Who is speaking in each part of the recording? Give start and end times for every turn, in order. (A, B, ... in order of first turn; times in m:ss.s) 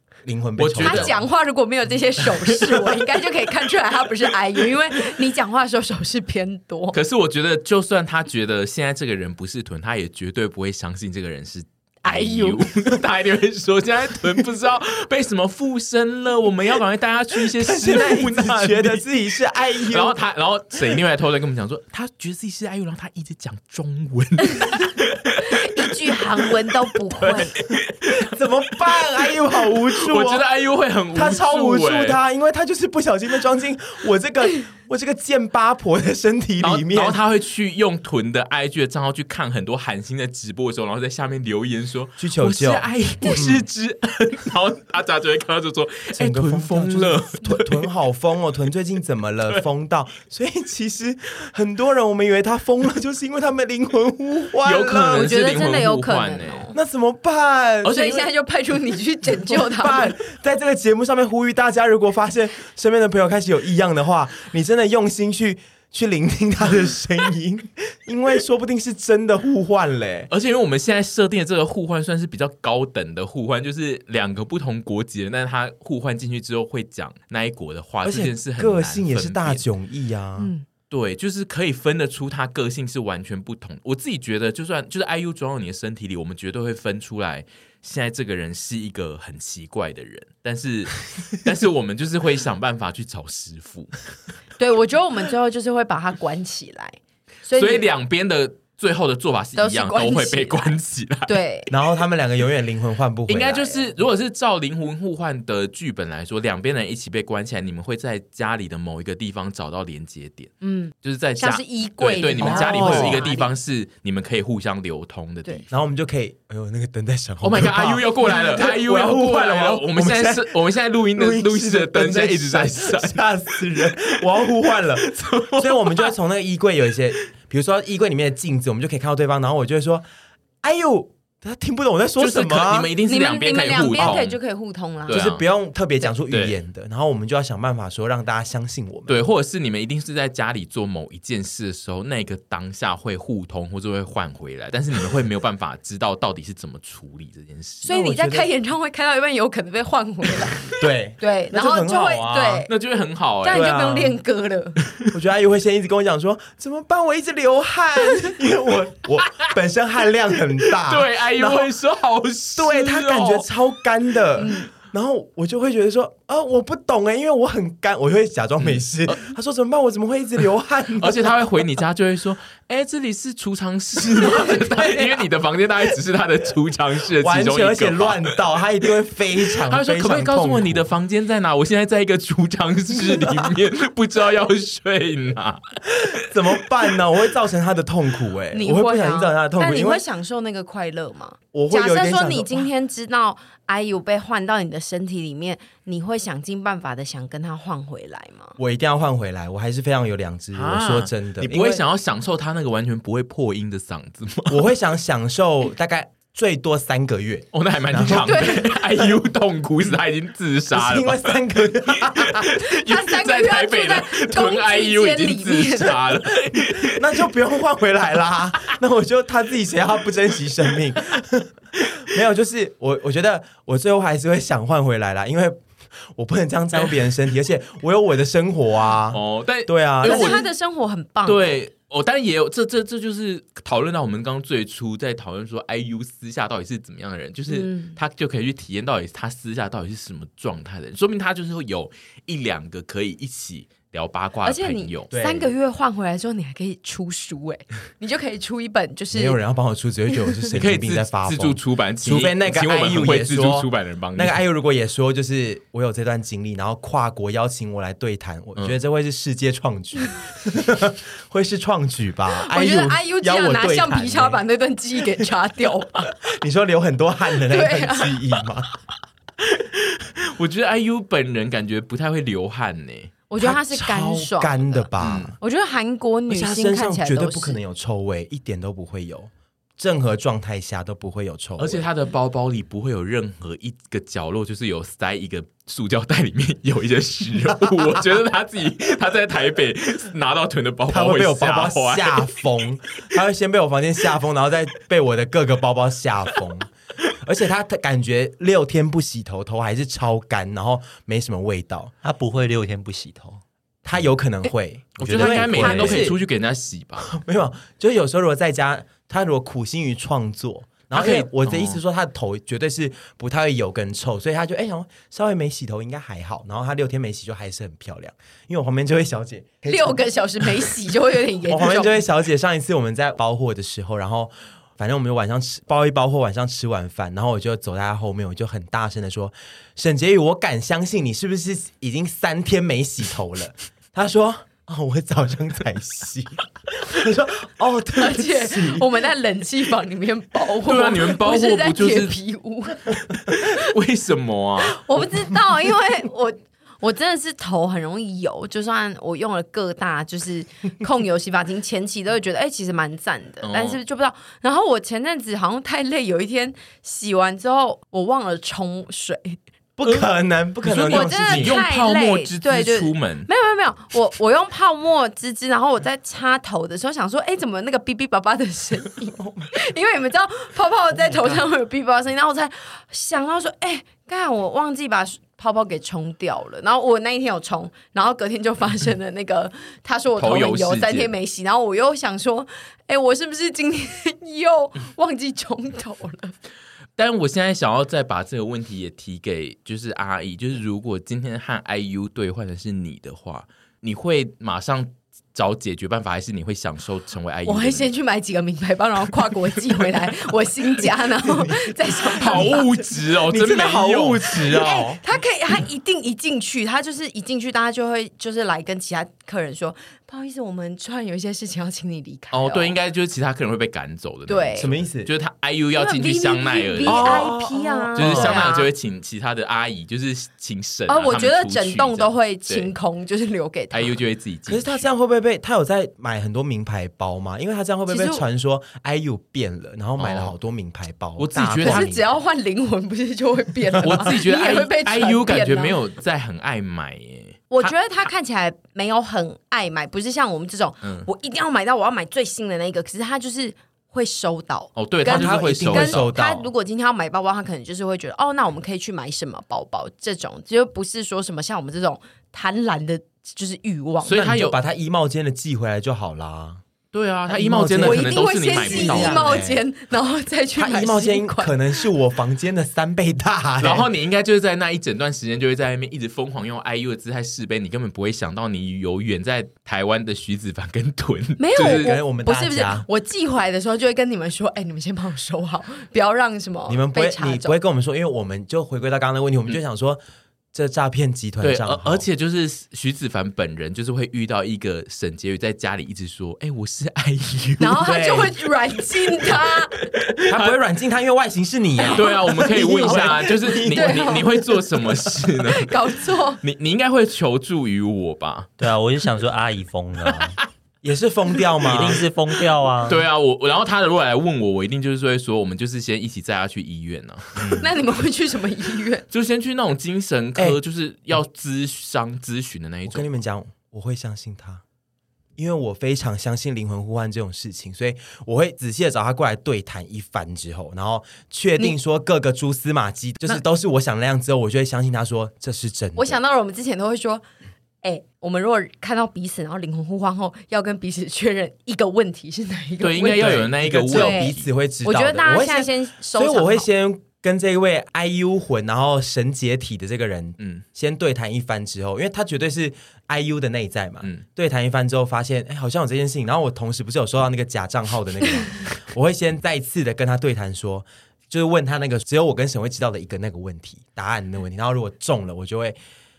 0:00.2-0:01.2 A
0:00.6-0:01.2 B
0:00.8-0:07.0 C
0:06.9-0:19.0 B
0:12.0-0:12.6 C
0:17.6-0:20.2 A
0:19.9-0:28.3 B
0:25.6-0:27.6 C
0:28.2-0:30.4 A
0:29.9-0:32.2 B
0:31.1-0:37.2 A
0:36.6-0:47.9 B
0:42.2-0:43.6 A
0:46.2-0:55.3 A
0:54.6-0:56.7 B
0:55.1-0:56.8 C
0:56.7-0:58.3 A
0:57.8-0:58.1 B
0:57.8-1:00.2 C
0:59.4-1:10.3 A
1:10.3-1:19.6 B
1:18.0-1:20.5 A
1:20.4-1:20.7 C
1:20.9-1:34.0 B
1:34.6-1:37.9 C
1:37.6-1:41.4 B
1:39.6-1:40.7 C
1:41.2-1:41.7 C
1:41.7-1:43.9 A
1:43.3-1:55.7 B
1:50.6-1:53.5 C
1:52.4-1:53.2 A
1:55.7-2:00.6 A
1:57.4-2:03.2 B
2:01.2-2:10.0 A
2:05.0-2:06.1 B
2:10.6-2:12.9 A
2:12.2-2:14.4 B
2:13.1-2:15.2 C
2:13.9-2:14.2 A
2:15.1-2:15.4 B
2:15.1-2:19.2 A
2:16.3-2:16.6 B
2:19.1-2:27.9 B
2:27.8-2:30.7 C
2:27.9-2:28.5 A
2:30.7-2:32.7 A
2:31.2-2:32.7 C
2:32.7-2:33.7 B
2:33.4-2:34.8 C
2:33.5-2:34.2 A
2:35.1-2:41.7 A
2:40.8-2:43.5 B
2:42.6-2:51.4 A
2:44.4-2:44.7 C
2:48.6-2:49.3 B
2:51.0-2:58.3 B
2:54.2-2:55.2 A
2:57.2-3:00.9 A
2:59.7-3:06.3 B
3:03.0-3:03.5 A
3:06.0-3:10.0 A
3:08.5-3:18.6 C
3:11.5-3:12.7 A
3:18.6-3:21.8 A
3:20.5-3:24.6 B
3:24.5-3:28.8 A
3:27.5-3:31.4 B
3:28.2-3:28.7 C
3:30.7-3:32.5 A
3:31.9-3:37.0 B
3:32.6-3:36.0 C
3:36.8-3:50.4 A
3:49.1-3:50.4 B
3:50.0-3:51.6 C
3:51.2-4:05.1 B
3:57.5-3:58.0 C
4:04.4-4:09.4 C
4:05.1-4:05.5 A
4:09.1-4:24.4 A
4:10.5-4:14.4 B
4:22.4-4:26.0 C
4:26.1-4:28.7 A
4:27.4-4:28.2 C
4:29.4-4:33.1 B
4:33.3-4:34.9 C
4:33.4-4:35.4 A
4:35.0-4:35.3 B
4:35.4-4:37.6 C
4:36.3-4:41.8 A
4:41.6-4:52.4 B
4:50.9-5:01.9 A
5:02.0-5:03.4 D
5:03.8-5:06.2 A
5:05.0-5:07.1 B
5:05.0-5:06.1 D
5:07.0-5:20.1 A
5:10.9-5:11.8 B
5:19.6-5:22.0 C
5:21.4-5:38.9 A
5:38.0-5:42.9 C
5:40.6-5:42.2 B
5:43.3-5:44.8 B
5:44.7-5:59.4 C
5:53.4-5:53.8 B
5:59.8-6:01.6 A
6:00.6-6:03.3 B
6:00.8-6:26.3 C
6:09.2-6:09.5 A
6:20.2-6:21.1 B
6:27.0-6:37.9 B
6:37.4-6:42.7 C
6:41.4-6:41.7 A
6:42.2-6:44.5 B
6:42.2-6:42.6 A
6:43.2-6:45.0 A
6:44.5-6:52.8 C
6:52.3-6:57.3 B
6:54.3-6:54.7 C
6:54.6-6:55.1 A
6:55.8-6:58.7 C
6:56.8-6:58.5 A
6:58.0-7:02.7 B
7:00.9-7:04.0 C
7:03.7-7:04.9 B
7:04.5-7:12.1 A
7:07.9-7:08.2 C
7:10.0-7:10.3 B
7:11.2-7:11.9 B
7:11.6-7:15.8 C
7:13.8-7:17.7 B
7:17.5-7:34.3 C
7:20.8-7:21.1 B
7:24.8-7:26.1 B
7:25.0-7:26.5 A
7:34.0-7:34.6 B
7:34.1-7:36.6 A
7:36.9-7:39.3 B
7:37.3-7:39.6 A
7:37.8-7:41.9 C
7:40.6-7:43.9 A
7:43.6-7:51.9 B
7:51.4-7:57.6 C
7:51.6-7:52.9 A
7:56.7-8:00.0 A
8:00.5-8:02.0 A
8:01.4-8:08.2 B
8:07.6-8:09.8 C
8:07.8-8:08.3 A
8:10.0-8:10.6 B
8:10.2-8:15.2 A
8:11.8-8:14.4 C
8:11.9-8:18.5 B
8:15.4-8:16.4 C
8:18.6-8:20.4 D
8:20.8-8:22.0 A
8:21.6-8:23.0 D
8:21.6-8:22.0 B
8:22.8-8:27.6 B
8:27.4-8:27.7 D
8:27.5-8:29.0 C
8:29.1-8:33.1 B
8:32.9-8:34.6 A
8:35.4-8:46.2 A
8:46.0-8:47.2 C
8:47.8-8:56.7 C
8:52.8-8:54.4 B
8:53.1-9:15.8 A